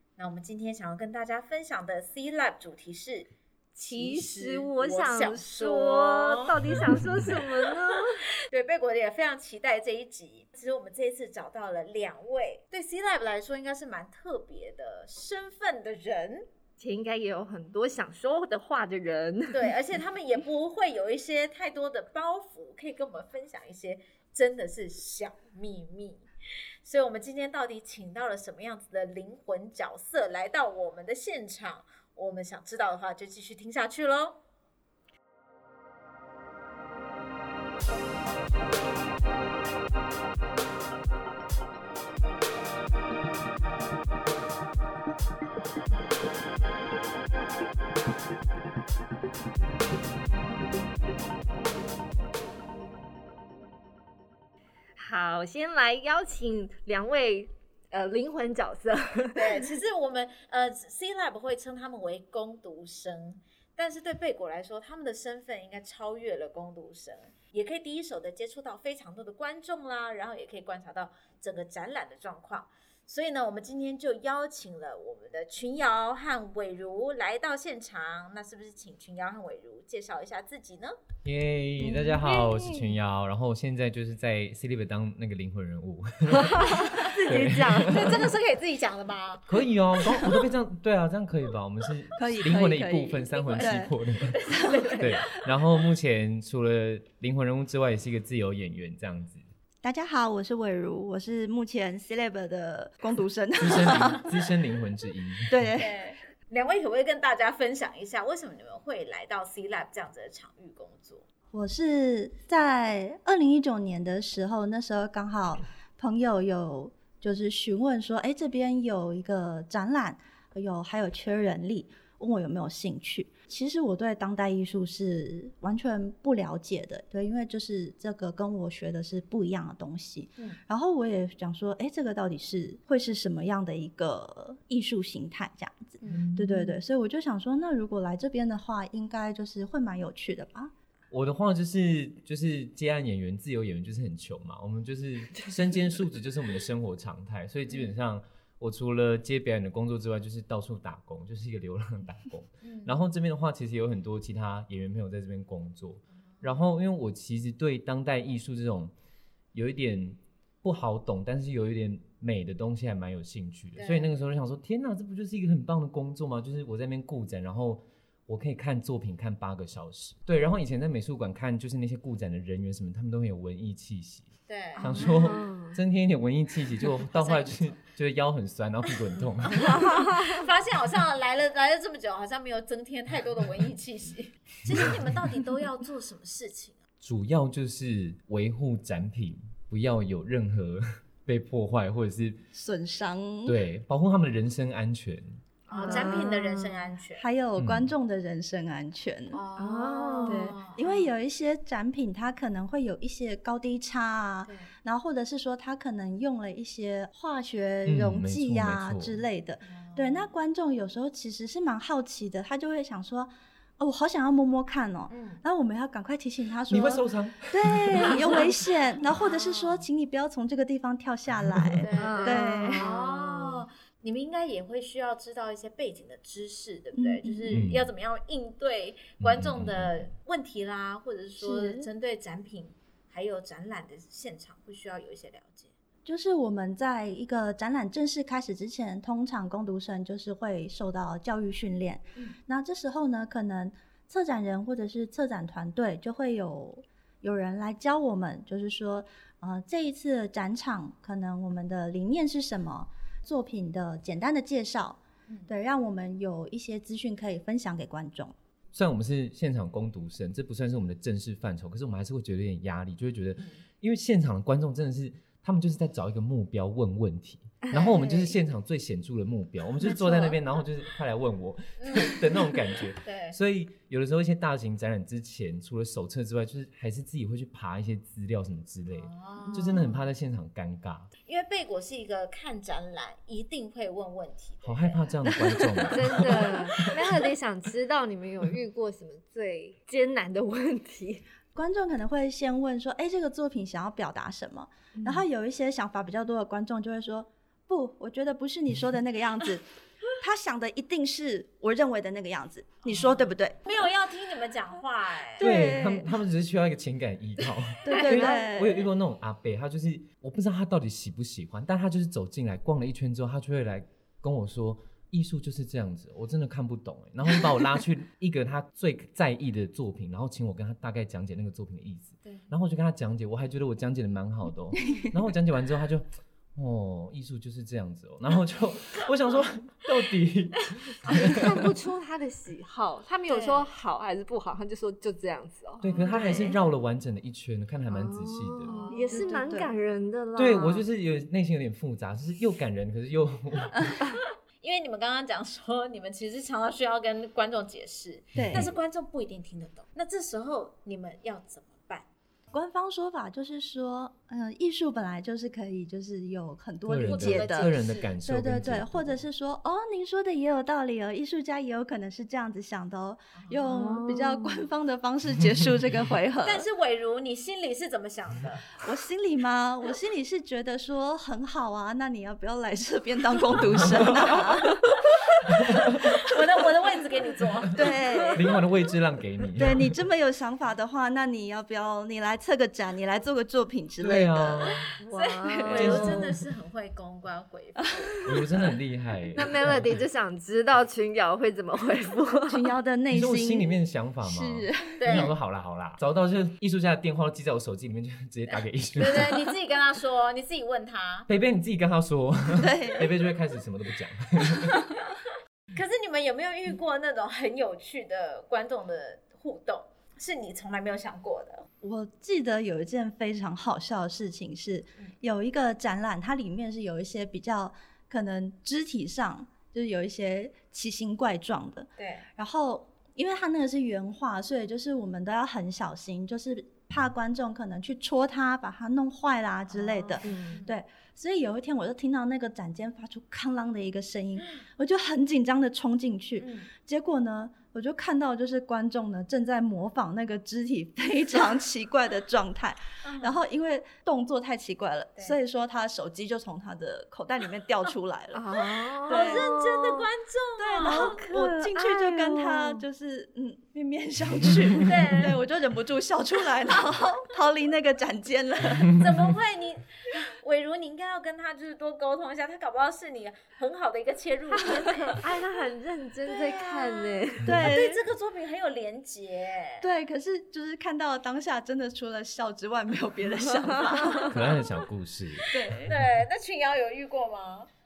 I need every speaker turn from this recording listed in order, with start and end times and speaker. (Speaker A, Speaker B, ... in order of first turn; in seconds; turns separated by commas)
Speaker A: 0.2-16.5, Speaker B: 3.9-8.3, Speaker C: 6.7-7.3, Speaker B: 16.8-19.7, Speaker A: 19.5-26.2, Speaker A: 26.8-34.4, Speaker B: 55.0-59.7, Speaker A: 59.3-81.0, Speaker C: 81.2-88.3, Speaker D: 81.8-82.9, Speaker B: 86.3-88.3, Speaker A: 87.8-89.5, Speaker C: 89.5-94.4, Speaker D: 92.2-93.9, Speaker A: 93.3-94.6, Speaker D: 94.5-95.0, Speaker B: 94.5-95.1, Speaker C: 95.0-99.4, Speaker D: 99.8-104.2, Speaker C: 103.6-105.7, Speaker D: 105.5-105.9, Speaker A: 105.8-111.2, Speaker D: 111.5-140.7, Speaker C: 136.1-136.6, Speaker C: 141.1-158.9, Speaker A: 152.6-152.9, Speaker C: 159.5-179.8, Speaker A: 163.8-164.1, Speaker A: 174.5-174.9, Speaker B: 174.8-175.8, Speaker A: 177.1-177.8, Speaker A: 179.6-186.8, Speaker B: 179.7-180.4, Speaker C: 187.0-192.4, Speaker D: 192.5-193.6, Speaker C: 193.4-195.4, Speaker A: 195.7-197.2, Speaker B: 195.7-196.8, Speaker D: 195.8-196.1, Speaker D: 197.2-199.4, Speaker C: 197.6-197.9, Speaker A: 199.3-201.1, Speaker B: 199.6-200.5, Speaker D: 200.2-222.8, Speaker C: 207.8-209.2, Speaker A: 209.7-210.3, Speaker A: 215.1-215.4, Speaker C: 216.7-218.5, Speaker A: 219.3-219.8, Speaker C: 221.5-221.8, Speaker A: 221.8-235.7, Speaker B: 222.0-223.6, Speaker D: 226.9-227.6, Speaker C: 227.5-227.9, Speaker C: 229.2-229.9, Speaker D: 231.4-231.9, Speaker D: 236.0-258.3, Speaker C: 258.7-281.1, Speaker B: 267.6-268.2, Speaker A: 267.7-268.0, Speaker A: 271.8-272.4, Speaker A: 273.0-273.4, Speaker A: 279.0-280.0, Speaker A: 281.3-285.1, Speaker C: 284.6-287.0, Speaker B: 285.9-291.2, Speaker D: 291.5-299.6, Speaker B: 295.0-295.2, Speaker D: 300.2-303.6, Speaker A: 302.9-305.4, Speaker D: 305.4-306.1, Speaker C: 305.4-331.7, Speaker D: 307.8-308.8, Speaker A: 307.9-308.3, Speaker B: 331.1-336.4, Speaker A: 333.3-333.7, Speaker C: 335.8-338.7, Speaker D: 336.1-336.6, Speaker B: 337.9-340.8, Speaker A: 338.6-339.6, Speaker D: 338.9-339.7, Speaker C: 340.4-344.0, Speaker A: 344.6-352.1, Speaker D: 348.3-348.7, Speaker C: 348.5-348.8, Speaker D: 352.5-366.6, Speaker C: 356.9-359.2, Speaker A: 357.1-358.1, Speaker A: 363.4-363.7, Speaker B: 363.7-364.6, Speaker A: 366.4-368.8, Speaker D: 368.8-374.8, Speaker C: 373.6-374.2, Speaker C: 375.5-376.0, Speaker D: 375.6-375.9, Speaker A: 376.0-377.9, Speaker D: 377.7-378.4, Speaker C: 378.3-379.9, Speaker D: 379.6-384.7, Speaker C: 384.0-384.9, Speaker B: 385.0-386.3, Speaker A: 385.1-388.4, Speaker D: 385.5-386.2, Speaker C: 385.7-386.3, Speaker C: 388.2-390.0, Speaker B: 389.3-392.6, Speaker D: 392.5-395.3, Speaker C: 393.1-399.4, Speaker A: 395.0-395.3, Speaker A: 398.9-401.3, Speaker C: 401.3-404.8, Speaker D: 402.5-403.1, Speaker A: 404.6-404.9, Speaker A: 405.7-411.6, Speaker D: 411.8-449.5, Speaker A: 422.0-422.2, Speaker A: 429.7-430.7, Speaker B: 430.2-430.6, Speaker A: 436.4-436.7, Speaker A: 443.0-443.4, Speaker B: 448.3-450.1, Speaker A: 449.1-451.2, Speaker D: 450.6-459.0, Speaker B: 450.8-452.8, Speaker A: 454.8-455.4, Speaker A: 458.9-465.2, Speaker B: 464.7-467.6, Speaker A: 466.3-469.8, Speaker D: 467.4-468.0, Speaker D: 469.8-474.4, Speaker C: 474.2-476.0, Speaker D: 475.5-475.9, Speaker A: 475.9-477.7